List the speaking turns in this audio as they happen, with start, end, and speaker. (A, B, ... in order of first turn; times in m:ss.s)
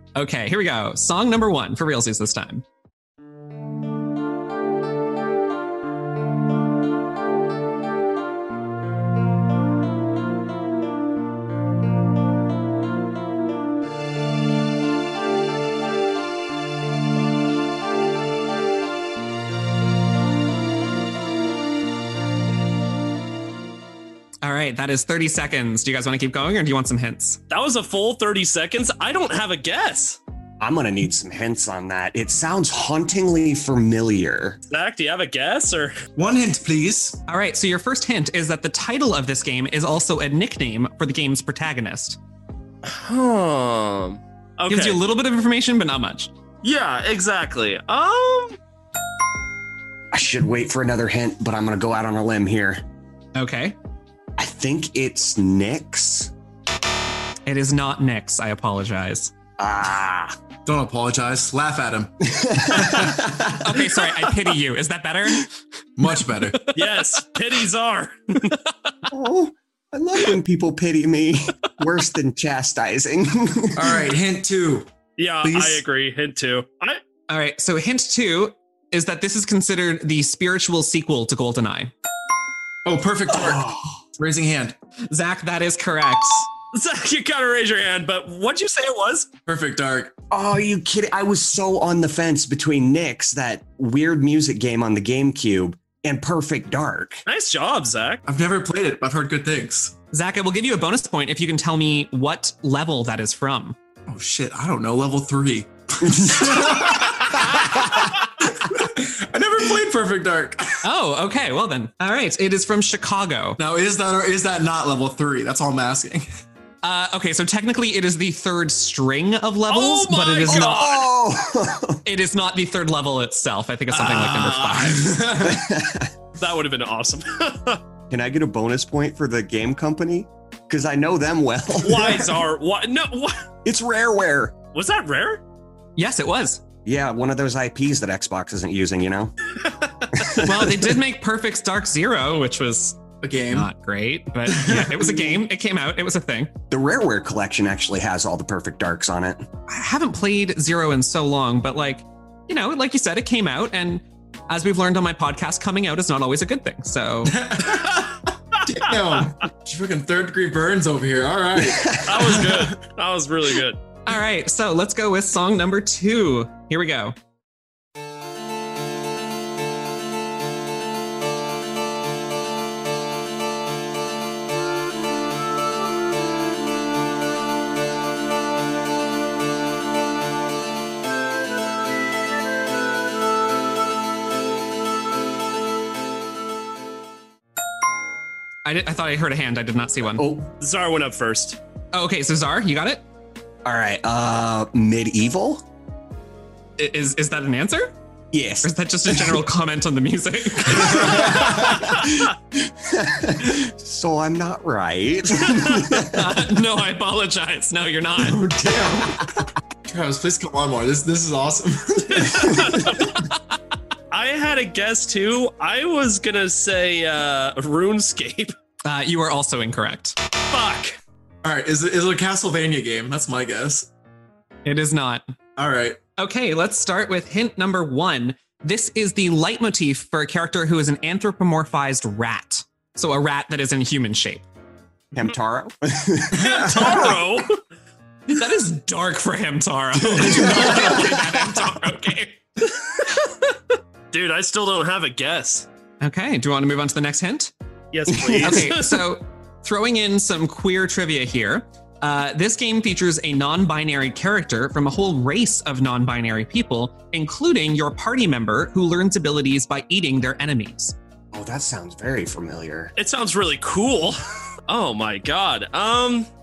0:00.2-0:02.6 A
0:24.4-0:27.4 A
0:27.5-0:30.2 B
0:30.6-0:34.6 C
0:34.7-0:36.0 B
0:36.2-0:37.2 D
0:37.3-0:42.2 A
0:42.8-0:45.0 B
0:44.7-0:46.3 A
0:46.6-0:48.6 B
0:50.1-0:52.8 C
0:53.4-0:53.8 A
0:54.4-0:56.3 C
0:57.5-0:59.3 A
0:59.6-1:00.4 C
1:00.6-1:03.3 D
1:02.2-1:03.8 C
1:03.5-1:05.5 A
1:06.0-1:06.6 D
1:06.5-1:07.0 A
1:06.7-1:08.7 B
1:09.1-1:14.1 C
1:13.8-1:14.9 D
1:15.2-1:17.0 B
1:15.4-1:15.8 D
1:17.3-1:21.9 A
1:22.9-1:24.8 D
1:23.3-1:24.0 C
1:25.1-1:26.5 A
1:26.7-1:29.3 B
1:29.5-1:30.1 D
1:30.3-1:37.2 C
1:37.3-1:38.2 B
1:38.3-1:40.0 D
1:40.1-1:43.8 A
1:44.1-1:50.8 D
1:46.1-1:46.7 C
1:47.4-1:48.0 A
1:50.8-1:53.6 A
1:53.6-1:56.3 D
1:56.8-2:00.8 A
1:59.7-2:01.1 B
2:00.4-2:02.0 C
2:02.0-2:05.2 A
2:03.9-2:05.0 B
2:04.8-2:05.8 D
2:05.4-2:06.1 C
2:06.4-2:07.8 B
2:08.1-2:12.4 C
2:11.8-2:13.4 B
2:13.6-2:14.6 C
2:14.7-2:15.4 B
2:16.0-2:16.6 A
2:16.8-2:19.3 C
2:19.6-2:20.1 B
2:20.1-2:21.0 C
2:20.3-2:26.5 A
2:23.2-2:23.7 D
2:24.5-2:25.4 D
2:26.7-2:29.5 C
2:29.7-2:37.5 A
2:37.3-2:42.7 D
2:41.7-2:42.0 C
2:42.0-2:43.8 B
2:44.1-2:47.2 A
3:08.6-3:10.3 A
3:10.1-3:10.5 C
3:10.6-3:11.6 B
3:11.9-3:13.0 A
3:13.6-3:15.6 C
3:16.8-3:17.9 A
3:18.3-3:19.4 C
3:18.6-3:21.7 A
3:20.7-3:21.9 D
3:20.7-3:26.4 C
3:25.8-3:28.4 A
3:28.2-3:33.0 D
3:28.6-3:29.2 C
3:32.1-3:33.2 B
3:34.1-3:38.5 B
3:38.8-3:40.2 A
3:40.5-3:41.0 B
3:41.4-3:43.9 D
3:44.6-3:45.3 A
3:45.6-3:46.0 D
3:46.2-3:54.4 A
3:55.1-3:57.1 C
3:56.3-3:57.6 B
3:56.3-3:57.2 D
3:58.3-4:02.4 A
4:00.1-4:01.0 D
4:00.2-4:01.5 C
4:04.1-4:05.7 B
4:06.0-4:07.5 A
4:07.9-4:09.0 B
4:08.1-4:08.8 C
4:08.4-4:21.0 A
4:21.3-4:22.9 C
4:23.0-4:26.3 B